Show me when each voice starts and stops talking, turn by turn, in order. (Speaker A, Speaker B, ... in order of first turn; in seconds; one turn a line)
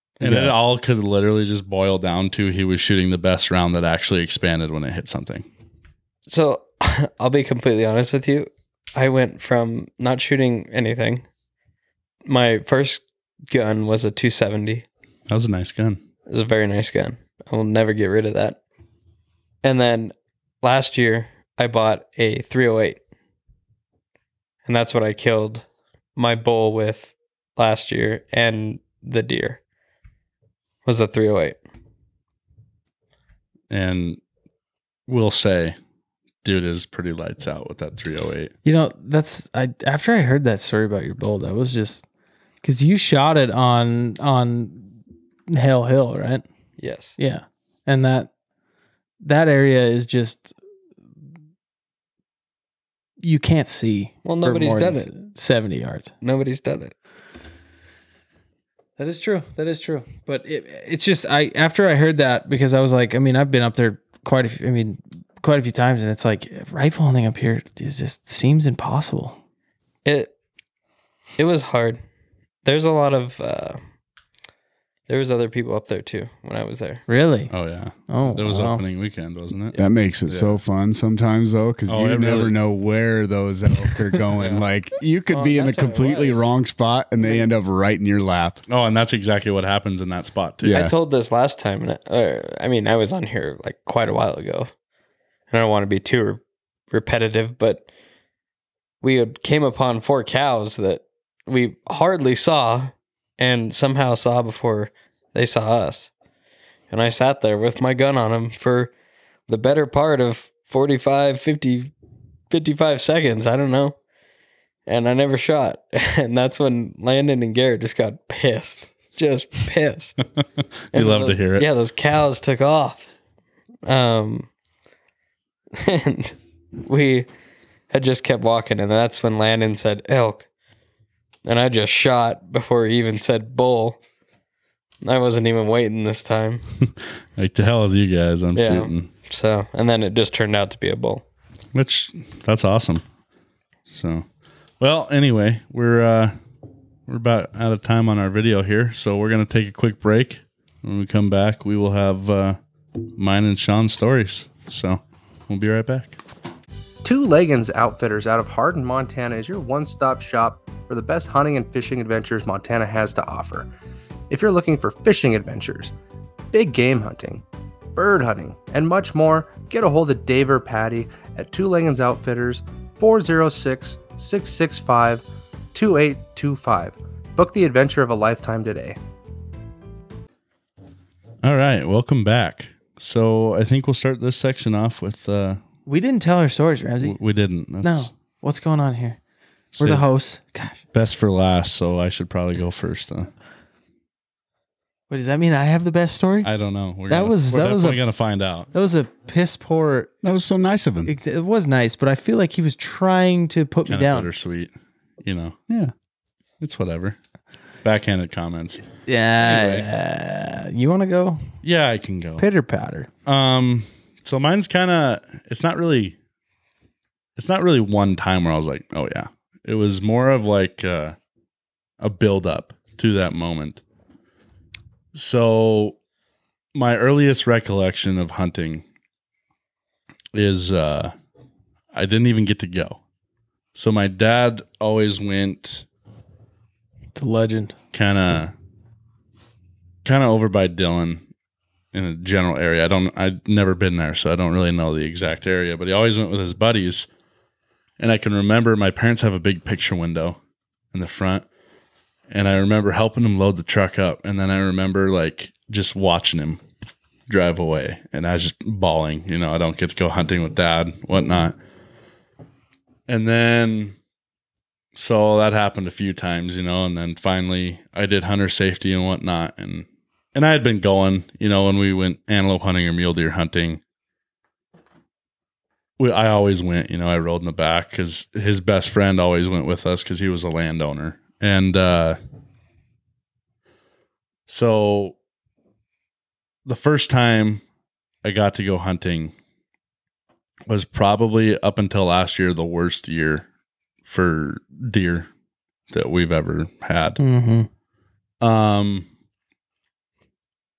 Speaker A: 0.2-0.6
Speaker B: 0.2-5.5
Speaker C: 6.3-11.2
Speaker C: 12.3-14.9
Speaker B: 15.3-16.0
Speaker C: 16.3-18.6
Speaker C: 19.6-23.0
Speaker C: 24.6-25.6
Speaker C: 26.2-29.6
Speaker C: 30.9-31.6
Speaker B: 33.7-34.2
Speaker B: 35.1-35.8
Speaker B: 36.4-38.5
Speaker D: 38.6-42.0
Speaker D: 42.6-44.9
Speaker D: 45.5-46.5
Speaker C: 46.8-47.2
Speaker D: 47.2-48.3
Speaker D: 49.2-50.5
Speaker D: 53.2-56.1
Speaker C: 54.2-55.1
Speaker C: 56.2-56.9
Speaker D: 59.0-69.4
Speaker C: 70.0-70.3
Speaker C: 71.4-72.0
Speaker C: 72.7-73.8
Speaker C: 75.1-77.0
Speaker D: 77.1-77.5
Speaker B: 77.5-80.6
Speaker D: 78.1-78.8
Speaker A: 79.8-88.6
Speaker B: 81.9-82.5
Speaker C: 85.3-86.5
Speaker B: 88.7-90.9
Speaker A: 90.6-90.9
Speaker C: 90.7-94.7
Speaker C: 95.5-97.9
Speaker C: 99.0-106.1
Speaker C: 106.9-108.9
Speaker C: 109.5-111.9
Speaker C: 112.5-114.0
Speaker C: 114.9-120.2
Speaker B: 120.9-121.7
Speaker C: 120.9-123.1
Speaker C: 123.8-124.5
Speaker C: 125.7-127.3
Speaker C: 127.9-130.5
Speaker C: 131.4-134.0
Speaker C: 135.0-136.6
Speaker B: 136.9-139.1
Speaker C: 138.6-141.2
Speaker B: 141.7-143.0
Speaker B: 143.9-144.2
Speaker B: 144.8-146.4
Speaker B: 147.1-152.6
Speaker B: 153.2-156.2
Speaker E: 157.0-163.7
Speaker E: 164.3-165.9
Speaker E: 166.5-167.4
Speaker E: 168.0-179.0
Speaker B: 181.4-185.6
Speaker D: 185.9-187.2
Speaker B: 187.0-188.1
Speaker D: 187.8-189.2
Speaker B: 189.8-190.0
Speaker D: 189.8-190.8
Speaker B: 190.9-193.3
Speaker D: 195.1-196.5
Speaker B: 196.4-198.7
Speaker D: 197.1-198.0
Speaker D: 198.7-200.1
Speaker A: 200.2-201.1
Speaker D: 201.1-204.3
Speaker B: 203.9-204.7
Speaker B: 205.2-205.6
Speaker B: 206.6-207.2
Speaker B: 207.8-208.9
Speaker D: 209.1-211.4
Speaker B: 209.4-209.9
Speaker B: 211.6-212.5
Speaker D: 212.4-213.1
Speaker B: 213.3-216.2
Speaker B: 217.4-221.2
Speaker B: 222.0-223.8
Speaker B: 225.1-226.0
Speaker B: 226.7-228.8
Speaker B: 230.3-231.1
Speaker B: 231.9-233.0
Speaker B: 233.7-235.8
Speaker D: 237.2-237.7
Speaker B: 237.9-238.5
Speaker B: 240.1-241.2
Speaker B: 241.9-247.1
Speaker B: 248.0-250.4
Speaker B: 250.9-251.4
Speaker B: 252.3-256.6
Speaker B: 257.3-261.6
Speaker B: 263.1-264.0
Speaker B: 264.9-273.8
Speaker B: 276.0-282.2
Speaker B: 284.5-285.2
Speaker B: 286.7-287.6
Speaker B: 288.2-289.3
Speaker B: 290.7-293.4
Speaker B: 294.1-295.3
Speaker B: 295.9-297.2
Speaker D: 297.2-297.7
Speaker B: 298.4-299.1